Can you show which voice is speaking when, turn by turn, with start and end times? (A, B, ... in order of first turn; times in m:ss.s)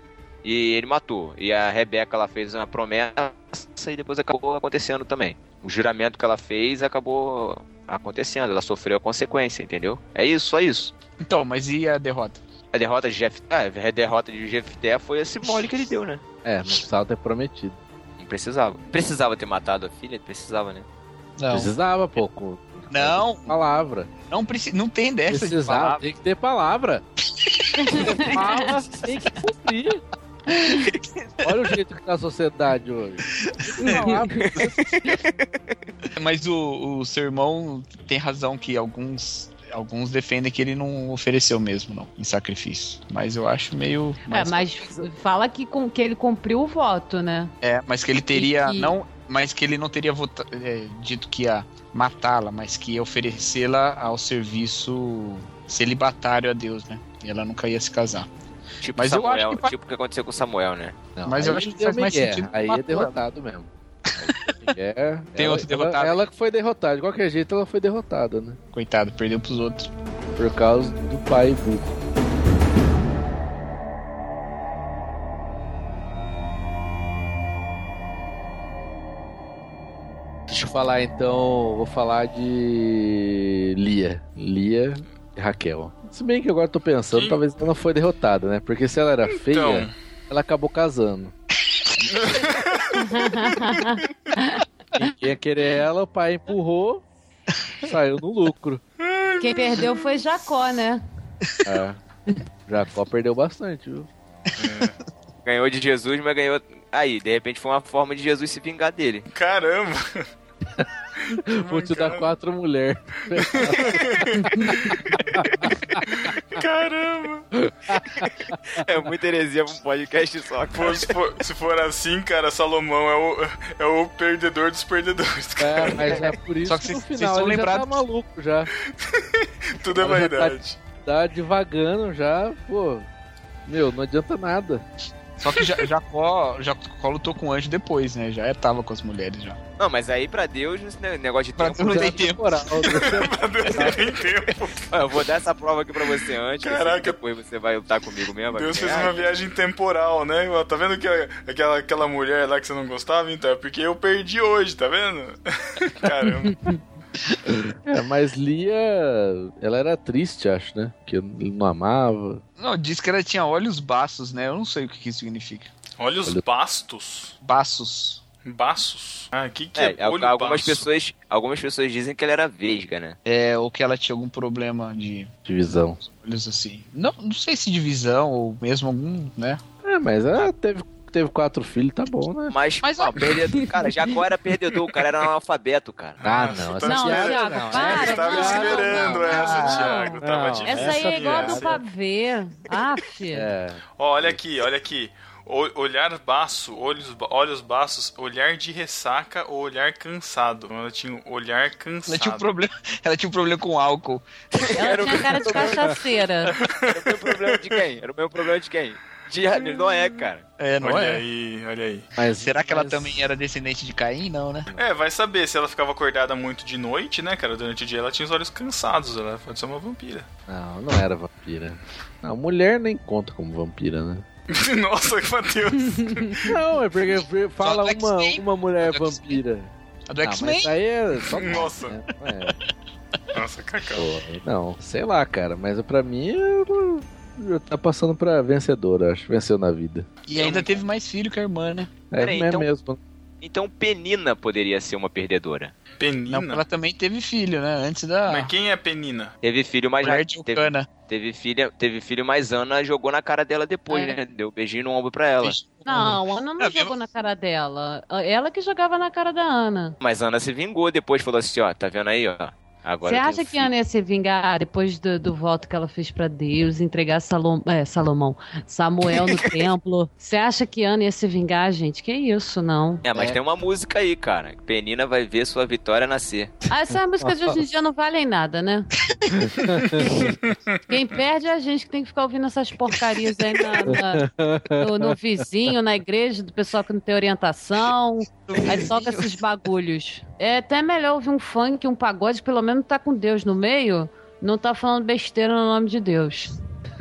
0:00.4-0:10.9 A
0:11.2-0:12.4 B
0:12.7-0:16.2 A
0:16.4-0:17.8 C
0:18.2-0:20.9 A
0:21.4-0:21.7 B
0:21.5-0:24.1 C
0:22.9-0:23.5 B
0:24.3-0:26.0 B
0:25.3-0:27.0 C
0:27.4-0:28.8 B
0:27.8-0:28.8 D
0:27.9-0:30.0 C
0:30.5-0:30.9 D
0:31.4-0:34.8 C
0:33.3-0:34.8 B
0:33.8-0:34.4 D
0:34.4-0:35.4 A
0:36.2-0:45.0 B
0:44.3-0:47.5 D
0:47.6-0:58.3 B
0:48.3-0:49.0 D
0:58.8-1:01.0 A
0:59.0-0:59.7 B
1:01.2-1:03.7 C
1:01.3-1:03.2 B
1:04.1-1:04.5 B
1:04.2-1:08.6 C
1:05.4-1:06.2 B
1:08.7-1:09.9 B
1:10.4-1:11.9 C
1:20.5-1:31.3 C
1:27.1-1:27.4 E
1:29.3-1:29.9 E
1:32.1-1:33.0 E
1:33.0-1:34.6 D
1:35.0-1:37.0 C
1:37.8-1:38.8 C
1:39.0-1:39.9 E
1:39.4-1:41.0 D
1:41.6-1:42.0 C
1:42.7-1:44.1 C
1:44.6-1:45.0 E
1:45.4-1:49.3 A
1:49.3-1:50.3 E
1:51.2-1:52.3 E
1:51.5-1:56.0 C
1:53.4-1:57.5 E
1:57.6-1:58.8 C
1:58.7-2:01.1 A
2:00.7-2:06.3 E
2:05.6-2:08.7 C
2:06.6-2:08.0 B
2:09.0-2:10.8 E
2:10.0-2:13.1 C
2:13.7-2:14.8 C
2:15.4-2:19.6 B
2:19.8-2:22.3 A
2:21.6-2:22.8 B
2:21.8-2:24.0 C
2:22.9-2:24.9 E
2:24.9-2:29.3 A
2:26.6-2:27.2 E
2:28.5-2:36.7 E
2:37.5-2:42.4 C
2:42.6-2:45.7 B
2:46.0-2:47.4 E
2:47.4-2:48.2 B
2:48.4-2:50.9 E
2:49.8-2:53.2 A
2:53.3-2:55.3 B
2:55.5-2:56.0 C
2:56.0-2:59.6 B
2:59.8-3:02.5 C
3:02.5-3:06.2 A
3:02.8-3:03.3 B
3:06.2-3:11.8 E
3:06.2-3:09.4 C
3:06.8-3:13.5 D
3:09.2-3:09.9 B
3:10.2-3:11.8 C
3:13.3-3:14.4 C
3:14.0-3:22.5 E
3:22.1-3:25.1 B
3:24.7-3:26.0 A
3:24.8-3:26.6 D
3:26.6-3:27.7 E
3:26.9-3:30.5 A
3:30.6-3:31.2 B
3:30.8-3:32.1 E
3:32.2-3:33.2 C
3:32.4-3:34.7 B
3:34.8-3:40.3 E
3:40.5-3:44.2 C
3:44.5-3:46.6 E
3:46.0-3:46.3 D
3:46.5-3:49.7 C
3:47.6-3:49.4 B
3:50.1-3:50.7 B
3:50.2-3:52.6 C
3:51.3-3:52.0 E
3:53.3-3:54.1 E
3:54.0-4:00.1 C
4:00.3-4:01.9 B
4:00.4-4:00.7 A
4:02.1-4:03.0 C
4:02.2-4:02.7 A
4:03.4-4:05.7 A
4:06.0-4:06.6 E
4:06.3-4:08.5 B
4:08.3-4:09.3 E
4:09.4-4:15.6 A
4:10.0-4:10.9 B
4:13.9-4:14.2 D
4:15.4-4:16.9 B
4:15.8-4:20.0 D
4:20.0-4:23.7 A
4:23.0-4:33.1 D
4:33.0-4:36.5 A
4:36.7-4:38.9 D
4:37.2-4:37.6 C
4:39.3-4:40.3 C
4:40.9-4:56.5 D
4:43.9-4:45.2 C
4:48.5-4:49.3 B